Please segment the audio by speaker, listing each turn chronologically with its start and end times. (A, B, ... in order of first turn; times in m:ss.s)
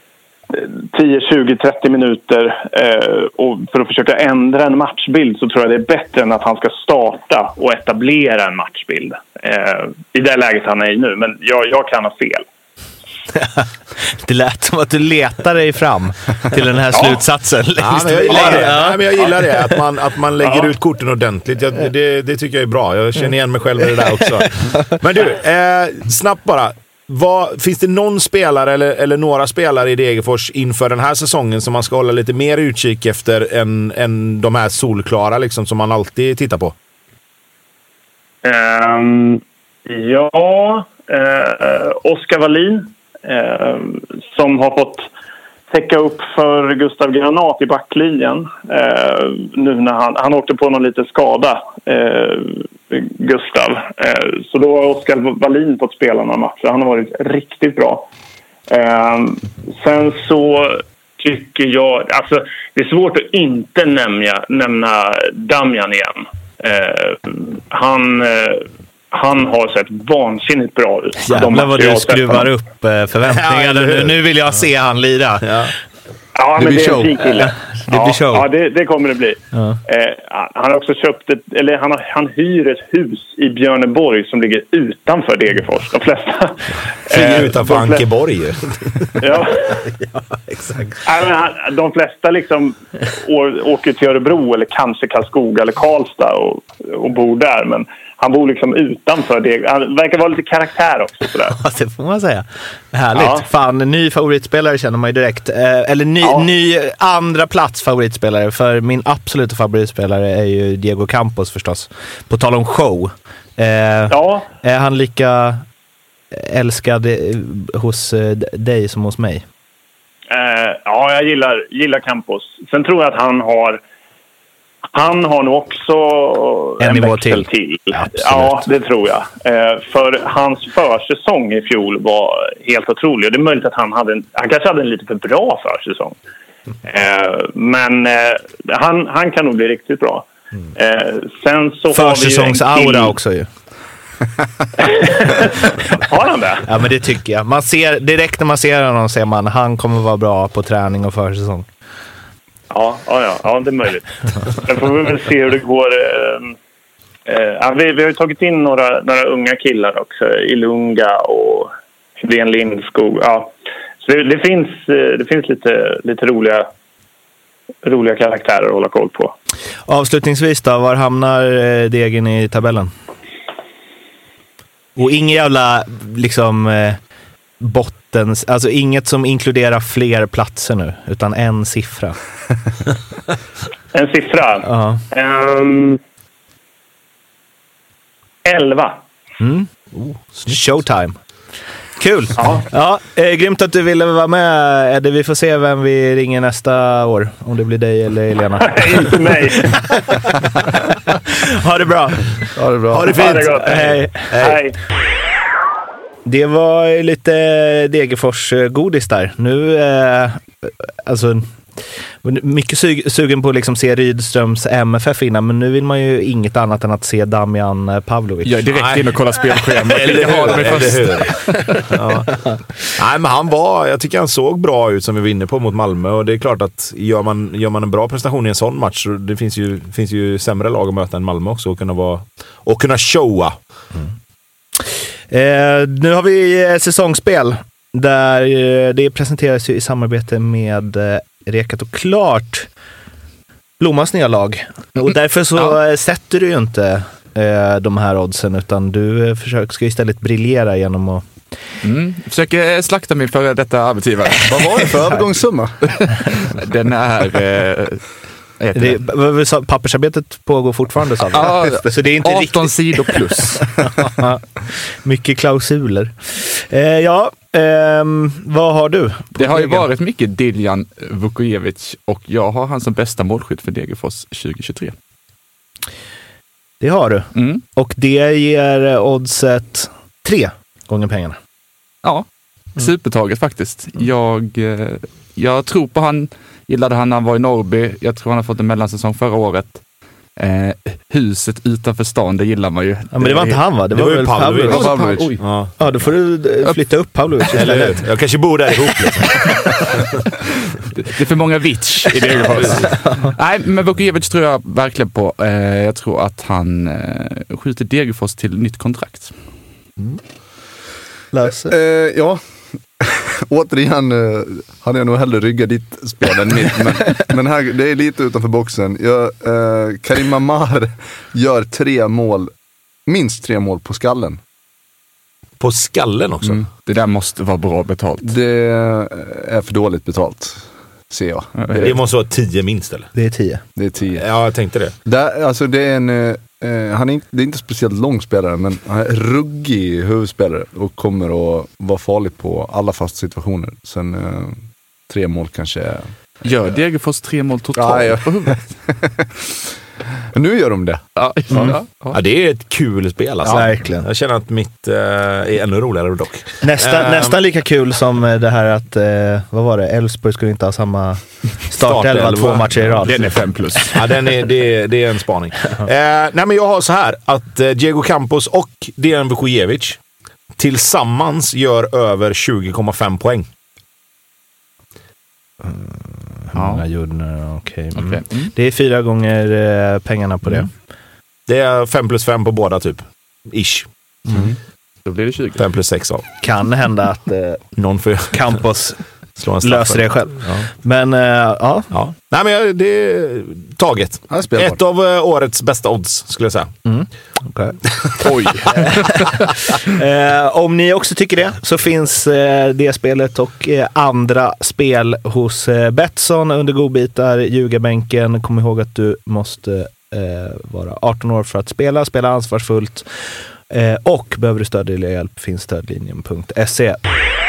0:00.5-0:12.5 A
0:13.4-0:19.8 B
0:17.8-0:36.8 C
0:18.3-0:18.7 A
0:24.0-0:25.0 B
0:38.4-0:45.1 A
0:45.7-0:58.1 A
0:58.7-1:12.5 A
1:11.2-1:15.6 B
1:13.3-1:14.2 C
1:15.4-1:15.7 C
1:16.4-1:28.0 A
1:16.6-1:17.2 D
1:17.4-1:18.5 B
1:19.5-1:19.8 B
1:27.1-1:29.1 C
1:29.2-1:29.8 A
1:30.5-1:31.0 B
1:31.0-1:41.6 A
1:41.5-1:55.6 B
1:43.2-1:43.4 A
1:54.1-1:54.5 A
1:56.3-1:59.4 B
2:00.3-2:03.8 A
2:04.9-2:16.2 A
2:06.8-2:08.7 B
2:16.8-2:23.2 A
2:21.9-2:23.5 B
2:24.8-2:26.7 A
2:26.6-2:31.7 B
2:32.7-2:36.6 A
2:37.3-2:46.7 A
2:47.8-2:49.3 A
2:49.9-2:52.9 B
2:55.0-2:57.0 B
2:57.6-3:02.2 B
3:03.9-3:06.0 A
3:04.7-3:05.0 B
3:08.4-3:09.0 A
3:09.4-3:09.7 B
3:10.1-3:10.6 C
3:10.4-3:11.2 B
3:12.0-3:24.4 B
3:12.4-3:12.7 A
3:18.6-3:19.8 A
3:22.5-3:23.2 D
3:23.0-3:24.8 A
3:24.3-3:24.6 C
3:26.2-3:38.6 B
3:38.4-3:41.8 E
3:38.7-3:53.6 C
3:55.3-4:02.7 B
4:03.8-4:11.3 B
4:11.8-4:14.9 E
4:14.5-4:15.8 D
4:16.0-4:19.0 E
4:18.8-4:29.9 B
4:21.3-4:23.9 E
4:29.4-4:35.0 E
4:36.8-4:41.4 B
4:37.4-4:37.6 E
4:42.0-4:49.8 E
4:50.4-4:53.7 E
4:53.1-4:55.0 B
4:53.9-4:55.8 C
4:54.7-4:55.4 D
4:54.7-4:55.4 E
4:55.8-4:58.1 B
4:56.6-4:57.0 E
4:57.5-5:00.0 C
5:01.0-5:09.3 E
5:11.3-5:11.8 B
5:11.6-5:12.4 D
5:13.0-5:22.5 D
5:23.1-5:24.4 D
5:25.6-5:26.6 C
5:26.7-5:28.3 E
5:28.2-5:32.0 D
5:31.6-5:31.9 E
5:31.8-5:33.1 C
5:33.2-5:33.6 B
5:33.8-5:34.2 D
5:34.2-5:34.9 C
5:35.0-5:46.1 D
5:46.4-5:48.6 E
5:47.8-5:49.3 D
5:50.3-5:51.8 D
5:51.2-5:52.2 E
5:51.5-5:51.8 B
5:52.1-5:57.4 C
5:53.4-5:54.1 B
5:56.6-6:03.8 B
6:01.8-6:03.0 C
6:02.9-6:04.1 E
6:03.9-6:10.0 C
6:10.6-6:13.5 C
6:15.6-6:20.7 B
6:16.5-6:16.9 E
6:18.0-6:18.5 E
6:21.5-6:23.9 C
6:24.3-6:25.6 E
6:25.6-6:26.2 C
6:26.4-6:27.8 B
6:27.8-6:28.6 C
6:28.3-6:29.0 B
6:29.4-6:30.7 C
6:29.6-6:31.9 B
6:31.9-6:36.7 C
6:34.3-6:34.8 D
6:36.8-6:53.1 B
6:38.2-6:39.3 E
6:53.7-6:57.0 B